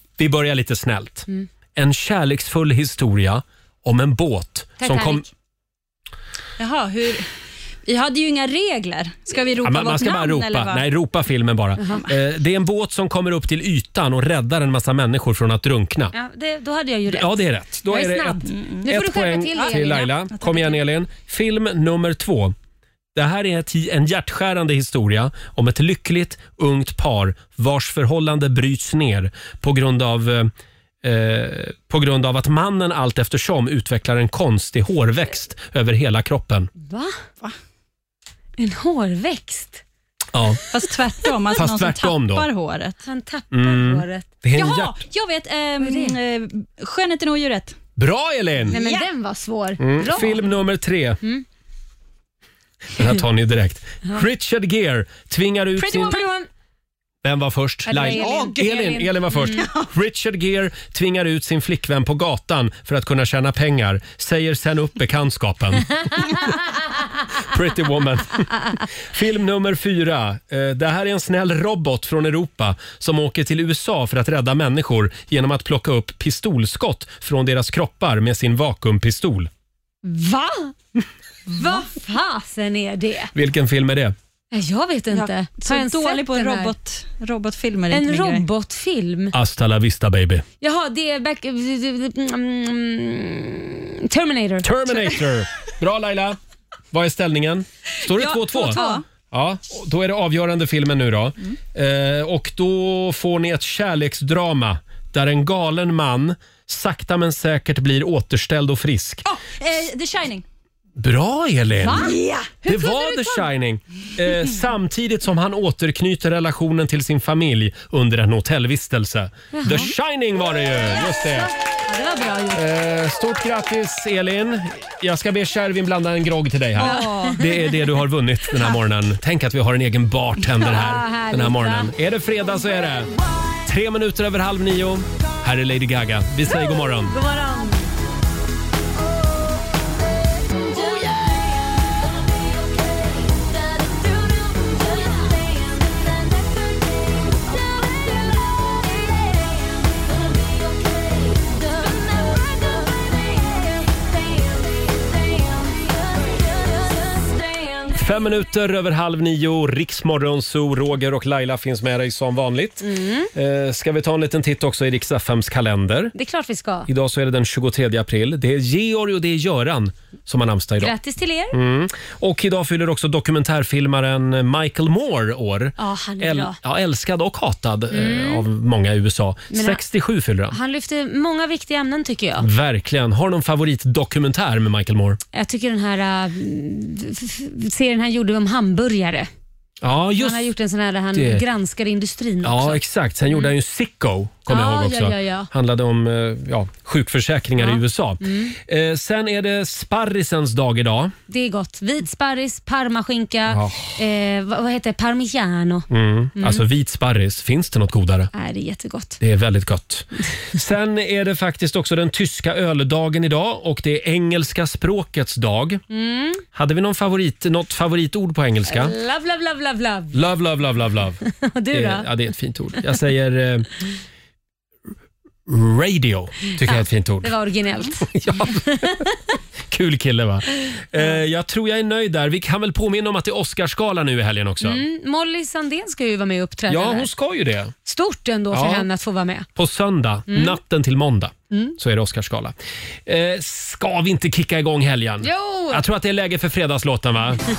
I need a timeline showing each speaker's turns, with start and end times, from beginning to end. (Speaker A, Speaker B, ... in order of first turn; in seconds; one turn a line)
Speaker A: 0.2-5.2
Speaker B: 4.8-5.2
Speaker C: 6.6-7.3
Speaker C: 7.8-10.8
Speaker A: 9.6-16.1
Speaker B: 16.1-20.1
Speaker A: 17.1-22.5
Speaker C: 18.5-18.9
Speaker C: 19.5-20.8
Speaker A: 23.1-30.5
Speaker A: 31.0-36.7
Speaker B: 36.8-37.1
Speaker B: 38.6-39.8
Speaker A: 40.3-40.6
Speaker C: 40.7-43.0
Speaker A: 41.5-42.5
Speaker B: 43.0-44.3
Speaker A: 43.5-45.0
Speaker C: 44.5-47.8
Speaker B: 45.8-46.1
Speaker A: 48.0-48.8
Speaker C: 48.7-49.0
Speaker B: 48.7-50.5
Speaker A: 49.8-51.2
Speaker A: 53.0-56.2
Speaker C: 55.8-56.3
Speaker B: 55.9-56.5
Speaker A: 57.2-66.5
Speaker B: 57.9-59.6
Speaker C: 57.9-58.6
Speaker C: 59.4-59.9
Speaker A: 67.4-79.5
Speaker B: 80.0-80.7
Speaker B: 81.5-83.3
Speaker A: 83.3-84.1
Speaker B: 84.5-86.7
Speaker C: 85.1-88.5
Speaker B: 87.9-89.3
Speaker A: 89.3-90.4
Speaker B: 90.6-94.7
Speaker A: 94.6-96.4
Speaker A: 96.9-109.2
Speaker C: 98.1-99.0
Speaker B: 98.6-99.0
Speaker C: 109.3-110.4
Speaker A: 111.0-121.5
Speaker B: 111.8-113.4
Speaker C: 111.9-112.5
Speaker B: 119.5-119.9
Speaker B: 120.6-122.6
Speaker A: 122.5-133.1
Speaker C: 126.8-127.6
Speaker B: 126.8-127.4
Speaker B: 130.6-131.9
Speaker A: 133.6-137.1
Speaker B: 136.5-137.9
Speaker A: 157.9-166.1
Speaker B: 162.8-163.3
Speaker B: 166.1-166.9
Speaker A: 166.9-170.9
Speaker B: 170.8-171.6
Speaker A: 171.5-180.6
Speaker B: 175.8-176.6
Speaker B: 177.9-178.5
Speaker B: 179.5-179.8
Speaker B: 180.5-182.5
Speaker A: 182.4-185.2
Speaker B: 185.3-189.3
Speaker A: 189.8-190.5
Speaker B: 190.2-193.5
Speaker A: 191.1-191.4
Speaker A: 192.4-201.1
Speaker B: 194.5-195.5
Speaker B: 197.6-198.5
Speaker B: 201.3-205.8
Speaker A: 203.5-204.0
Speaker A: 205.9-208.3
Speaker B: 206.4-206.6
Speaker B: 208.3-209.2
Speaker A: 209.2-215.8
Speaker B: 215.9-216.4
Speaker A: 216.5-218.9
Speaker B: 218.7-220.2
Speaker A: 220.1-221.2
Speaker B: 221.3-222.1
Speaker A: 221.7-223.7
Speaker A: 225.5-227.3
Speaker B: 226.5-228.1
Speaker A: 228.0-229.1
Speaker B: 228.7-228.9
Speaker A: 229.7-234.8
Speaker B: 230.9-231.2
Speaker B: 234.6-237.1
Speaker A: 236.7-237.7
Speaker B: 237.8-239.5
Speaker A: 238.5-238.9
Speaker A: 239.6-242.5
Speaker B: 240.3-240.6
Speaker A: 243.1-247.4
Speaker B: 245.2-245.8